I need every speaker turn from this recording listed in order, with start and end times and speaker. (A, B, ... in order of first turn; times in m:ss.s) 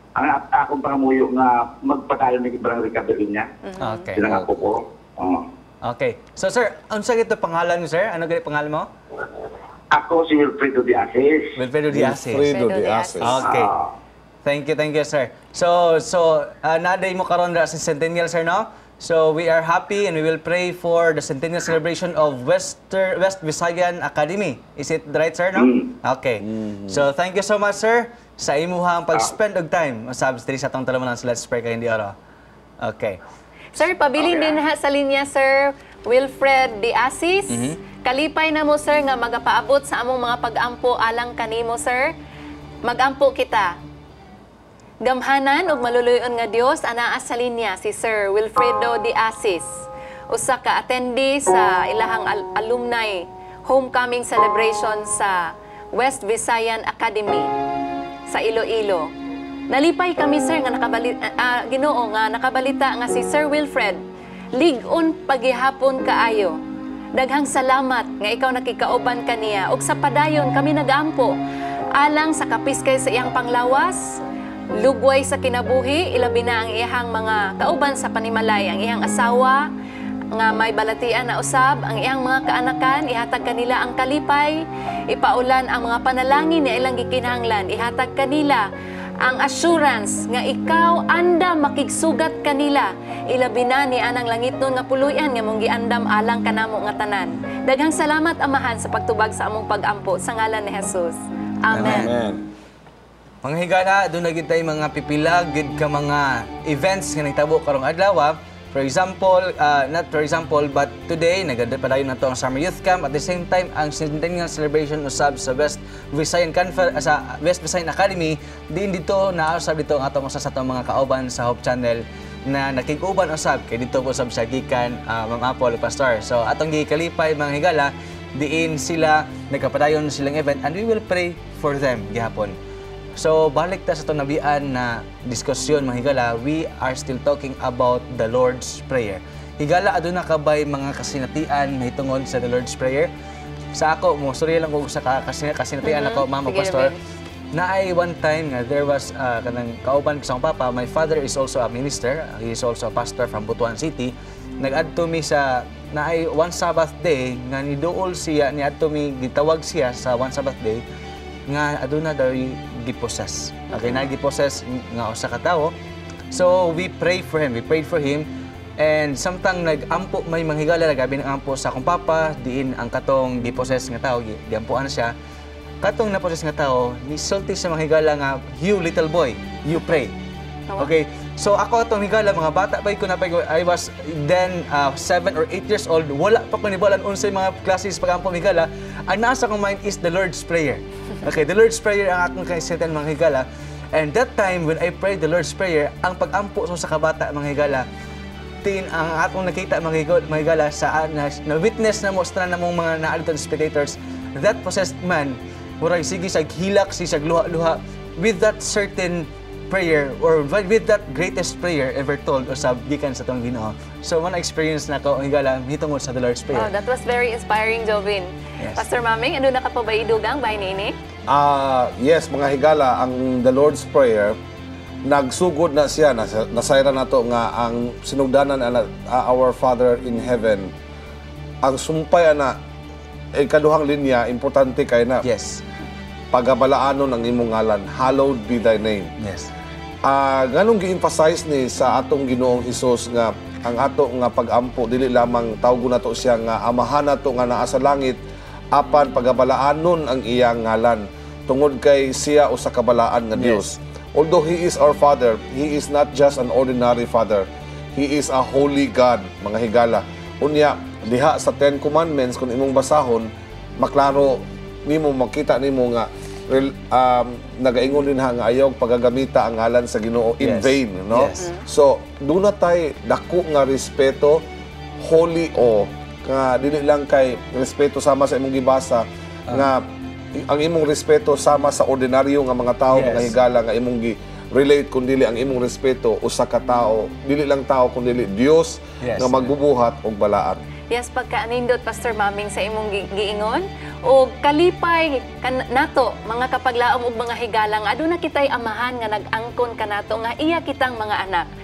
0:00.2-0:03.4 A
0:03.6-0:04.2 B
0:03.8-0:04.2 C
0:04.2-0:05.4 A
0:04.2-0:04.6 D
0:05.8-0:08.9 C
0:09.9-0:11.5 A
0:11.6-0:12.5 C
0:11.9-0:13.4 D
0:12.5-0:13.2 B
0:13.2-0:13.7 C
0:14.4-0:32.1 C
0:26.4-0:27.0 D
0:32.8-0:33.2 C
0:33.7-0:42.1 B
0:37.5-0:37.8 C
0:42.8-0:43.7 B
0:45.0-0:49.7 B
0:50.3-0:55.4 B
0:55.9-0:57.5 B
0:58.3-0:59.1 B
0:59.7-1:04.0 B
1:04.6-1:06.5 B
1:07.1-1:11.3 B
1:12.0-1:14.0 B
1:14.8-1:19.6 B
1:20.3-1:24.6 B
1:25.1-1:28.6 B
1:29.2-1:42.1 B
1:41.7-1:42.1 C
1:41.7-1:42.4 D
1:43.4-2:12.6 C
2:13.2-2:23.1 C
2:23.7-2:26.9 C
2:25.8-2:27.0 B
2:27.5-2:40.8 C
2:41.5-2:45.7 C
2:43.7-2:44.0 B
2:46.3-2:48.2 C
2:48.8-2:55.1 C
2:55.8-3:00.1 C
3:00.8-3:17.8 C
3:18.6-3:36.7 C
3:36.5-3:40.9 B
3:41.3-3:44.4 D
3:45.0-3:50.7 D
3:51.6-3:52.6 D
3:53.4-3:55.2 D
3:55.2-3:55.6 C
3:56.3-3:59.1 D
3:59.2-3:59.5 C
4:00.0-4:08.2 D
4:08.7-4:34.4 D
4:30.4-4:31.5 C
4:35.0-4:39.8 D
4:40.4-4:50.6 D
4:42.9-4:43.3 C
4:49.0-4:49.5 C
4:50.9-5:01.5 B